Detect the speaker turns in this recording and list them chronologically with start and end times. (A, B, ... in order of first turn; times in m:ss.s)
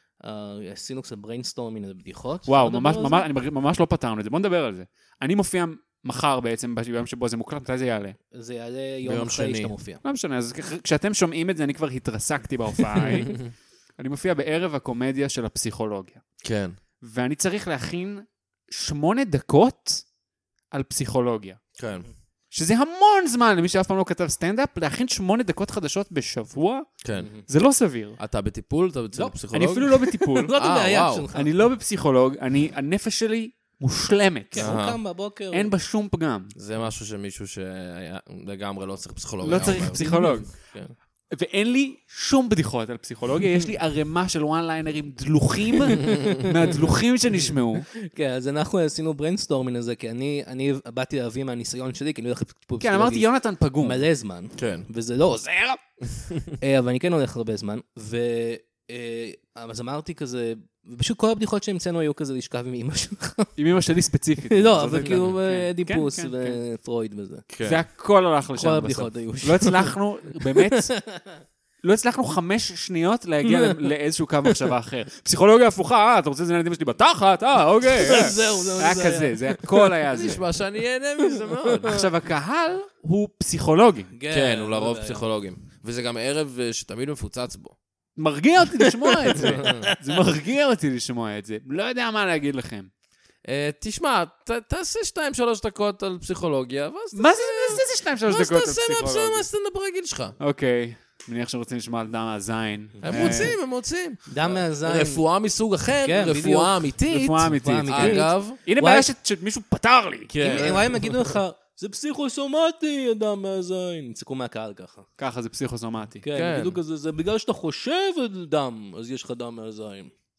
0:00.2-0:03.3 A
0:02.5-0:08.2 B
0:08.3-0:10.0 A
0:09.0-0:09.7 C
0:10.0-0:16.2 B
0:16.4-0:16.8 C
0:17.0-0:20.0 B
0:20.7-0:21.6 B
0:21.8-0:22.1 C
0:22.5-0:28.2 B
0:27.0-0:27.3 C
0:27.2-0:27.4 A
0:28.2-0:29.9 C
0:29.5-0:30.5 B
0:29.9-0:31.5 A
0:30.6-0:31.3 C
0:31.3-0:34.9 B
0:34.5-0:35.7 A
0:34.6-0:35.0 C
0:35.5-0:36.5 B
0:36.6-0:40.9 C
0:39.4-0:40.6 B
0:39.5-0:40.5 A
0:41.3-0:47.9 B
0:47.9-0:53.3 A
0:52.8-0:54.0 B
0:53.8-0:55.8 A
0:54.6-0:54.9 C
0:56.5-1:03.5 A
1:03.6-1:06.6 B
1:04.5-1:07.4 A
1:07.5-1:07.8 C
1:07.6-1:11.0 B
1:08.6-1:11.4 A
1:11.8-1:20.4 B
1:13.4-1:13.8 A
1:17.9-1:20.1 A
1:20.1-1:22.0 C
1:21.5-1:21.9 A
1:21.9-1:24.1 B
1:24.1-1:25.2 A
1:24.3-1:27.8 C
1:28.2-1:32.9 B
1:28.8-1:30.2 A
1:29.6-1:29.8 C
1:33.4-1:40.4 C
1:37.1-1:39.5 B
1:40.4-1:43.6 B
1:43.0-1:43.5 A
1:43.0-1:48.6 C
1:44.3-1:45.3 A
1:46.0-1:46.9 A
1:47.1-1:50.8 B
1:47.5-1:49.1 A
1:50.3-1:51.2 C
1:50.4-1:55.1 A
1:55.2-1:56.2 B
1:56.2-2:00.1 A
1:56.3-1:56.8 C